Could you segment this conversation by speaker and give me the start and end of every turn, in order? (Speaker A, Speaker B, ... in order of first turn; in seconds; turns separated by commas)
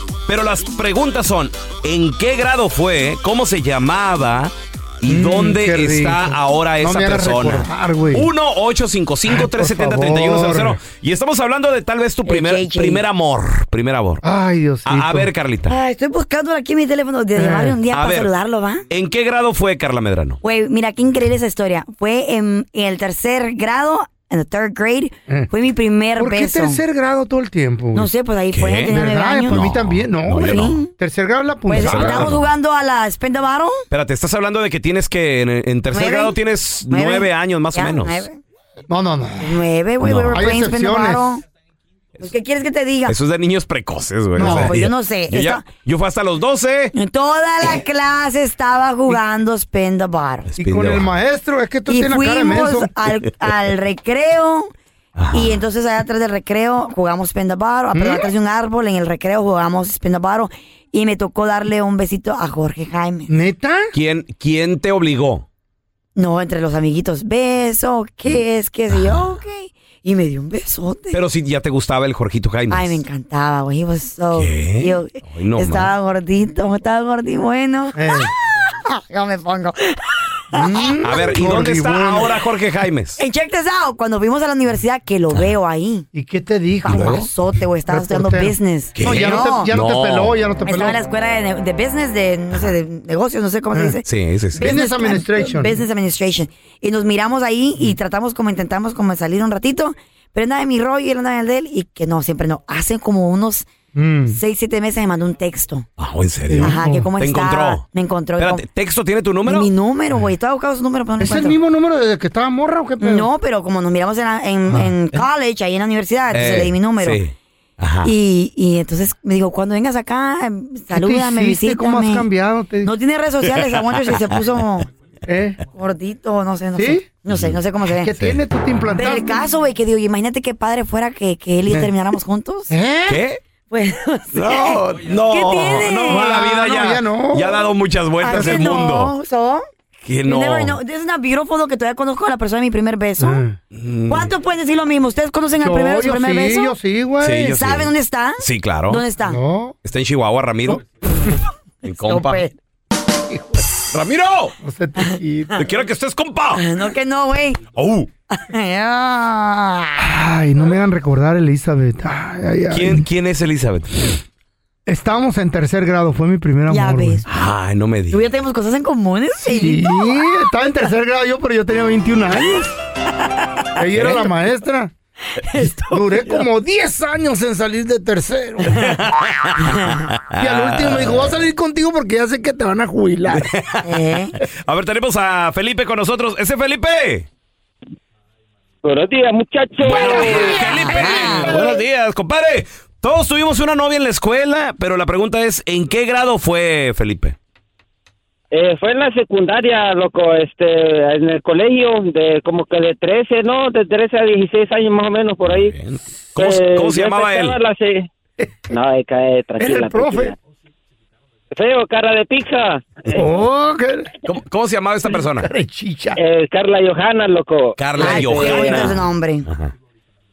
Speaker A: 0.3-14.2, Speaker B: 5.0-8.3, Speaker B: 9.3-10.8, Speaker C: 12.3-13.0, Speaker B: 14.2-15.3, Speaker A: 14.9-15.8, Speaker C: 15.7-18.8, Speaker B: 17.4-17.8, Speaker A: 17.9-18.3, Speaker A: 18.9-20.4, Speaker C: 20.4-26.8, Speaker B: 26.2-28.1, Speaker C: 27.9-29.6, Speaker A: 28.5-30.8, Speaker B: 28.9-32.3, Speaker C: 30.3-30.9, Speaker C: 31.7-33.8, Speaker A: 31.8-32.5, Speaker A: 33.9-38.2, Speaker C: 35.9-36.4, Speaker C: 36.9-38.4, Speaker B: 38.9-39.6, Speaker C: 39.4-41.4, Speaker A: 40.0-40.4, Speaker B: 40.3-41.3, Speaker C: 42.2-43.1, Speaker A: 43.1-46.9, Speaker B: 44.4-44.8, Speaker C: 44.4-45.7, Speaker C: 47.0-50.5, Speaker A: 50.6-51.1, Speaker B: 50.6-52.9, Speaker C: 51.9-54.7, Speaker A: 55.2-55.6, Speaker C: 55.3-63.3, Speaker B: 57.9-58.3, Speaker B: 63.3-63.9, Speaker A: 63.9-65.5, Speaker C: 66.2-71.2, Speaker A: 68.9-69.3, Speaker A: 71.1-73.0, Speaker C: 72.7-78.2, Speaker A: 74.3-75.9, Speaker B: 78.0-78.3, Speaker C: 78.9-80.0, Speaker B: 80.5-82.3, Speaker A: 81.0-83.2, Speaker C: 83.2-86.1, Speaker B: 86.1-87.3, Speaker A: 86.8-87.2, Speaker C: 86.8-89.7, Speaker B: 87.9-91.0, Speaker A: 89.0-90.3, Speaker C: 90.7-94.0, Speaker B: 93.7-94.0, Speaker A: 94.1-94.8, Speaker B: 94.5-95.8, Speaker C: 94.6-103.7, Speaker B: 103.9-104.4, Speaker C: 104.3-105.9, Speaker A: 106.0-107.8, Speaker B: 106.5-107.1, Speaker C: 106.6-108.6, Speaker A: 108.4-109.7, Speaker C: 109.5-111.6, Speaker B: 111.2-113.3, Speaker C: 113.0-117.2, Speaker B: 114.7-115.0, Speaker A: 116.3-118.1, Speaker C: 118.0-122.3, Speaker B: 120.9-122.9, Speaker C: 122.8-124.9, Speaker B: 125.3-125.6, Speaker C: 125.7-128.2, Speaker B: 126.8-127.0, Speaker A: 127.3-127.6, Speaker B: 128.0-129.4, Speaker C: 128.9-132.7, Speaker B: 131.7-131.9, Speaker B: 132.7-133.2, Speaker A: 133.1-133.4, Speaker C: 133.7-136.4, Speaker A: 134.3-139.1, Speaker B: 136.0-137.6, Speaker C: 138.2-139.7, Speaker B: 138.3-138.8, Speaker A: 140.1-140.8, Speaker C: 140.2-143.4, Speaker B: 143.2-143.6, Speaker A: 143.7-144.3, Speaker C: 144.1-146.7, Speaker B: 145.6-147.6, Speaker A: 147.2-149.0, Speaker C: 147.5-149.4, Speaker B: 149.3-149.8, Speaker A: 149.8-150.8, Speaker A: 151.8-152.4, Speaker C: 152.0-152.6, Speaker B: 153.3-153.6, Speaker A: 153.9-154.5, Speaker B: 154.6-155.7, Speaker A: 155.6-156.6, Speaker C: 156.6-157.6, Speaker A: 157.8-158.1, Speaker C: 158.3-160.1, Speaker B: 160.0-163.1, Speaker A: 162.7-164.2, Speaker B: 164.9-167.2, Speaker C: 166.7-167.3, Speaker A: 167.3-168.3, Speaker C: 168.1-170.2, Speaker B: 169.4-172.7, Speaker C: 173.6-174.2, Speaker B: 173.8-174.9, Speaker C: 175.4-176.4, Speaker B: 175.6-178.8, Speaker A: 178.8-181.3, Speaker C: 179.7-180.0, Speaker B: 180.4-183.5, Speaker A: 183.3-187.3, Speaker C: 183.8-184.4, Speaker D: 188.8-190.5, Speaker A: 189.8-197.4, Speaker B: 190.0-191.7, Speaker C: 190.1-191.8, Speaker D: 198.5-205.8, Speaker A: 205.4-207.6, Speaker D: 206.3-208.1, Speaker D: 208.7-210.3, Speaker B: 209.6-210.3, Speaker D: 211.5-213.2, Speaker B: 213.1-214.1, Speaker A: 214.3-215.5, Speaker B: 215.4-216.2, Speaker D: 216.2-218.9, Speaker A: 217.8-219.7, Speaker C: 218.0-219.5